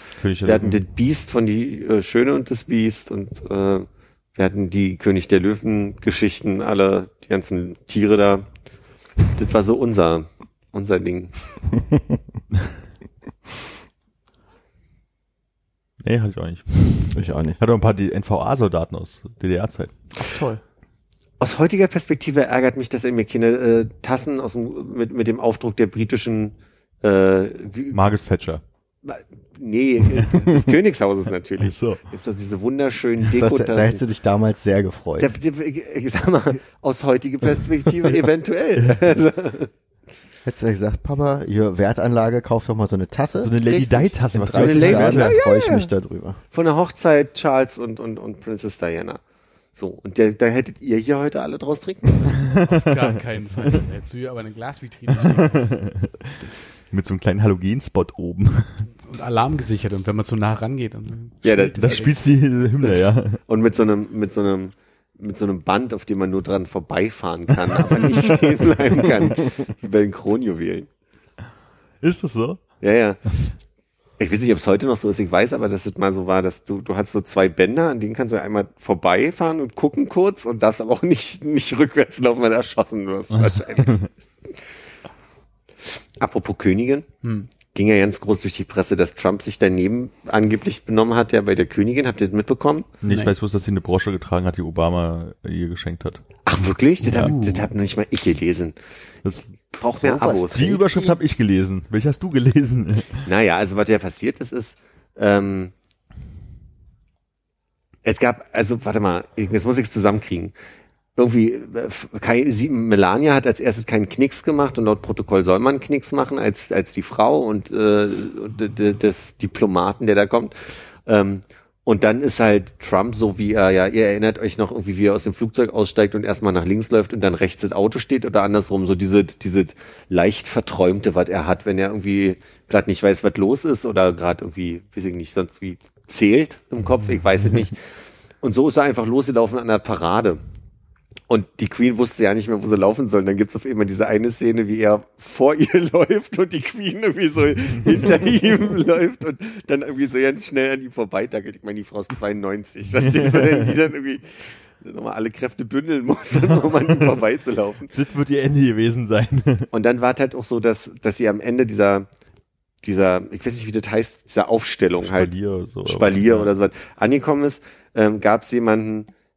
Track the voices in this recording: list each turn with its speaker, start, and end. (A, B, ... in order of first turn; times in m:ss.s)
0:00.2-0:00.8 A
0:00.4-0:08.5 B
0:09.4-0:11.4 B
0:16.0-0:19.9 A
0:17.1-0:17.6 C
0:20.2-0:20.6 D
0:21.4-0:28.0 B
0:27.9-0:28.6 A
0:29.0-0:34.0 B
0:31.6-0:32.0 A
0:33.3-0:35.3 C
0:35.2-0:39.7 B
0:40.4-0:43.6 C
0:43.4-0:45.4 A
0:43.6-0:45.9 B
0:44.3-0:46.4 C
0:46.5-0:49.2 B
0:49.7-0:52.4 B
0:52.2-0:55.7 D
0:52.4-0:52.9 A
0:55.3-0:58.9 A
0:59.1-1:02.1 D
1:01.4-1:02.1 B
1:01.8-1:03.4 A
1:02.8-1:10.9 B
1:12.0-1:12.8 A
1:12.8-1:13.2 B
1:14.2-1:24.1 B
1:23.3-1:24.1 A
1:26.2-1:27.1 B
1:27.2-1:27.5 D
1:27.6-1:32.9 B
1:33.0-1:36.2 A
1:33.0-1:33.3 D
1:36.4-1:38.8 B
1:37.0-1:37.7 A
1:39.8-1:40.8 B
1:40.0-1:41.2 C
1:40.2-1:43.2 A
1:43.2-1:45.7 B
1:48.0-1:50.5 B
1:51.2-2:17.8 B
2:18.4-2:20.4 B
2:21.3-2:37.9 B
2:36.4-2:37.0 A
2:37.9-2:39.7 A
2:39.7-2:42.1 B
2:42.8-2:45.3 B
2:45.0-2:46.5 A
2:45.8-2:49.1 B